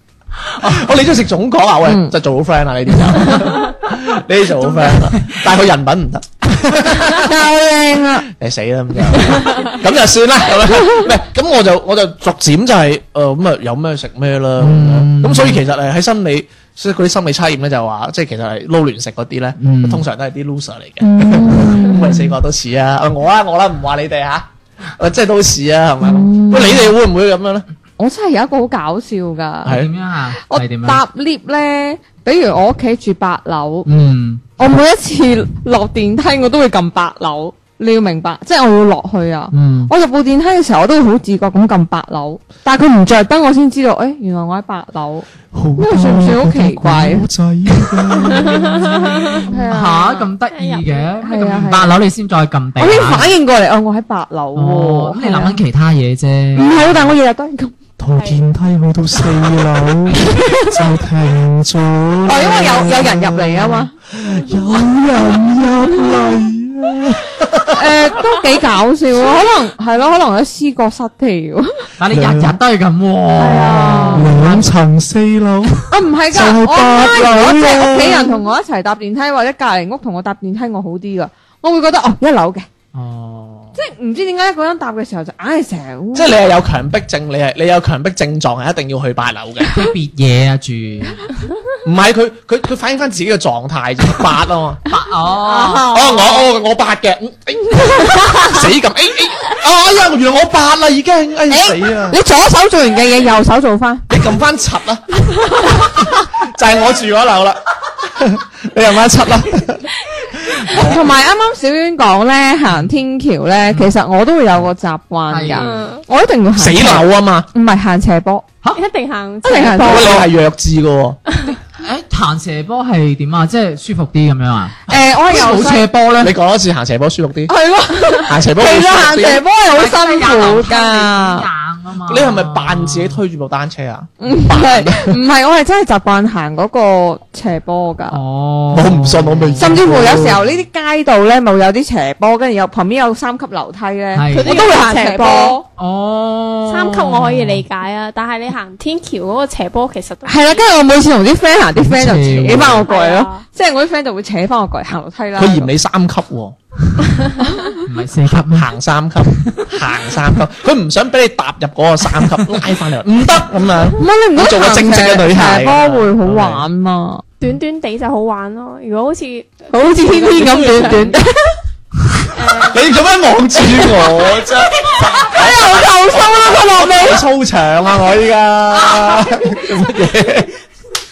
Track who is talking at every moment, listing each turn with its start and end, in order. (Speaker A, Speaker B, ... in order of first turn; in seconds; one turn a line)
Speaker A: 0.5-7.4
Speaker B: 1.9-2.1
Speaker B: 7.1-8.3
Speaker A: 8.2-27.7
Speaker C: 9.3-9.7
Speaker D: 14.6-15.6
Speaker D: 19.6-20.0
Speaker B: 21.0-22.3
Speaker B: 26.0-26.9
Speaker B: 28.0-29.8
Speaker A: 29.6-29.9
Speaker D: 29.7-31.0
Speaker B: 30.4-33.9
Speaker D: 33.9-34.4
Speaker B: 34.6-47.3
Speaker D: 39.5-39.9
Speaker A: 45.5-49.0
Speaker C: 48.3-49.5
Speaker B: 49.5-50.2
Speaker D: 49.5-53.3
Speaker C: 50.5-51.2
Speaker B: 51.2-52.0
Speaker B: 52.8-55.6
Speaker D: 54.5-57.1
Speaker B: 56.6-57.7
Speaker A: 58.0-68.1
Speaker C: 58.2-58.4
Speaker B: 60.2-60.7
Speaker B: 62.2-63.9
Speaker B: 65.6-66.3
Speaker B: 67.7-71.9
Speaker D: 72.0-74.2
Speaker A: 72.1-72.6
Speaker C: 73.4-74.3
Speaker B: 73.8-74.2
Speaker A: 73.8-78.4
Speaker B: 75.9-82.7
Speaker D: 82.9-83.7
Speaker B: 83.8-86.3
Speaker A: 86.1-89.8
Speaker D: 89.7-91.2
Speaker A: 91.8-94.8
Speaker D: 94.9-96.0
Speaker C: 95.4-96.5
Speaker A: 95.9-102.2
Speaker B: 101.5-104.1
Speaker A: 104.1-105.0
Speaker A: 105.7-111.1
Speaker B: 110.7-118.5
Speaker D: 115.3-115.8
Speaker C: 115.6-116.0
Speaker A: 116.6-117.5
Speaker C: 118.8-120.2
Speaker B: 119.4-120.2
Speaker A: 119.8-121.2
Speaker D: 121.5-126.3
Speaker B: 124.9-125.9
Speaker A: 124.9-127.5
Speaker B: 127.5-131.5
Speaker A: 128.2-129.4
Speaker D: 129.7-133.2
Speaker A: 132.1-135.2
Speaker B: 134.2-138.2
Speaker D: 138.1-140.3
Speaker A: 138.7-140.5
Speaker B: 139.6-145.7
Speaker D: 144.2-144.7
Speaker C: 144.3-145.6
Speaker D: 145.8-147.6
Speaker C: 146.7-150.6
Speaker B: 150.2-155.7
Speaker D: 151.8-152.9
Speaker C: 152.6-153.4
Speaker A: 155.4-156.6
Speaker D: 157.8-158.7
Speaker A: 158.5-166.7
Speaker D: 159.2-159.7
Speaker B: 164.0-167.2
Speaker C: 167.4-171.0
Speaker B: 169.7-171.5
Speaker A: 170.2-171.2
Speaker C: 172.3-172.9
Speaker A: 172.6-180.6
Speaker B: 175.3-177.2
Speaker D: 178.7-179.8